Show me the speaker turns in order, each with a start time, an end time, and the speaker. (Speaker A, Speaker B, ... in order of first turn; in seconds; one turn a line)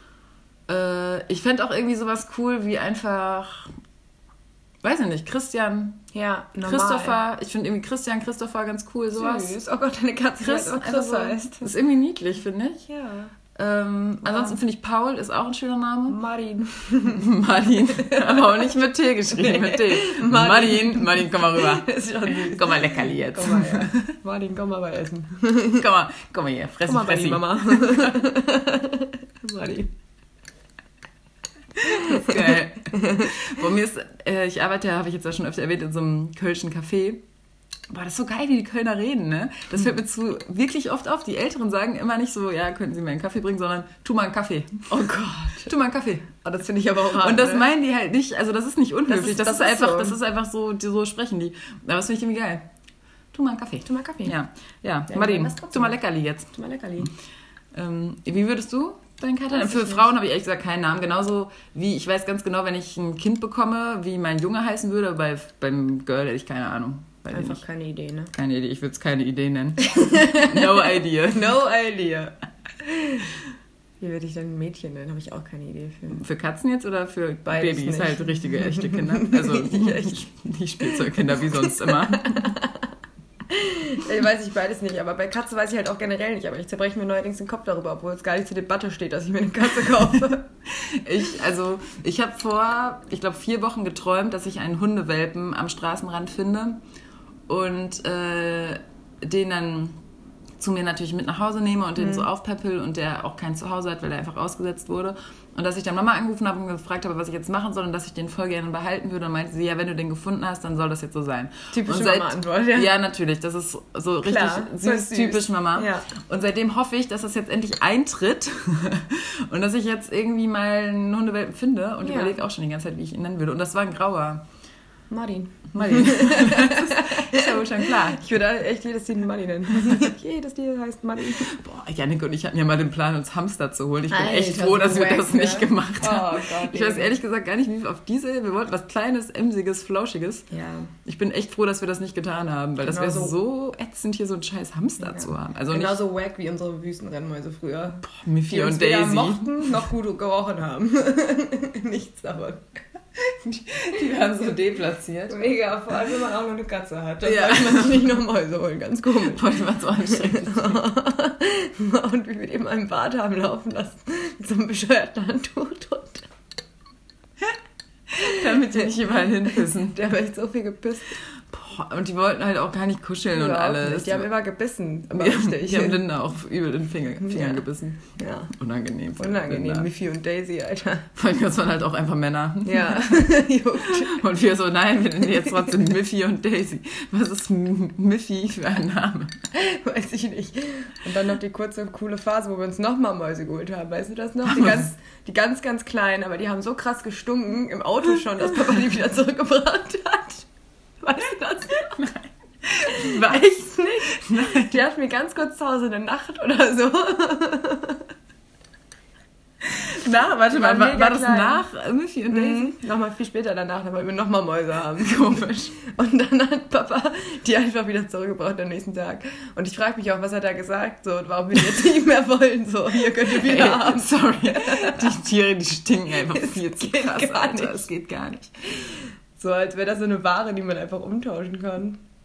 Speaker A: 0.7-3.7
Speaker A: 4.8-6.0
Speaker B: 6.1-7.2
Speaker A: 6.6-9.5
Speaker B: 9.1-11.7
Speaker A: 10.4-12.8
Speaker B: 12.9-13.3
Speaker A: 13.6-16.2
Speaker B: 14.2-14.6
Speaker B: 16.1-17.3
Speaker A: 17.1-24.1
Speaker B: 17.9-18.7
Speaker B: 19.3-25.9
Speaker A: 25.7-28.1
Speaker B: 26.8-29.9
Speaker A: 31.8-37.2
Speaker B: 31.9-33.3
Speaker A: 37.9-46.4
Speaker B: 44.9-45.7
Speaker B: 46.4-47.7
Speaker A: 47.1-52.6
Speaker B: 49.1-50.2
Speaker A: 53.3-56.5
Speaker B: 53.9-54.3
Speaker B: 55.1-56.0
Speaker B: 56.5-57.1
Speaker A: 57.7-67.6
Speaker B: 59.5-60.0
Speaker B: 67.3-68.3
Speaker A: 68.3-71.6
Speaker B: 69.8-73.4
Speaker B: 74.0-76.2
Speaker A: 76.1-82.6
Speaker B: 77.5-80.2
Speaker B: 80.8-82.9
Speaker B: 83.5-90.5
Speaker A: 90.7-96.8
Speaker A: 97.5-100.0
Speaker A: 100.6-124.4
Speaker B: 102.0-102.3
Speaker B: 111.7-112.9
Speaker B: 114.2-116.1
Speaker B: 122.0-122.4
Speaker B: 125.1-131.5
Speaker A: 125.7-128.2
Speaker A: 131.3-140.4
Speaker B: 134.1-137.2
Speaker B: 140.5-140.9
Speaker A: 141.0-146.0
Speaker B: 142.8-143.4
Speaker B: 145.0-152.8
Speaker A: 148.0-149.6
Speaker A: 153.2-155.5
Speaker B: 155.3-166.3
Speaker A: 157.2-158.1
Speaker A: 159.3-160.8
Speaker A: 168.1-170.1
Speaker B: 168.2-168.9
Speaker B: 169.4-171.2
Speaker A: 171.4-174.3
Speaker B: 173.3-176.0
Speaker A: 175.1-179.9
Speaker B: 177.2-177.7
Speaker B: 178.2-178.5
Speaker B: 179.2-181.1
Speaker A: 181.2-183.3
Speaker B: 182.6-184.2
Speaker A: 183.8-189.4
Speaker B: 189.5-200.4
Speaker A: 194.5-194.8
Speaker B: 201.0-202.1
Speaker A: 202.0-203.4
Speaker B: 202.8-208.1
Speaker A: 204.1-204.8
Speaker A: 209.6-212.8
Speaker B: 210.4-211.6
Speaker B: 212.3-225.1
Speaker A: 215.0-215.7
Speaker A: 223.2-228.5
Speaker B: 226.2-228.0
Speaker B: 228.7-232.0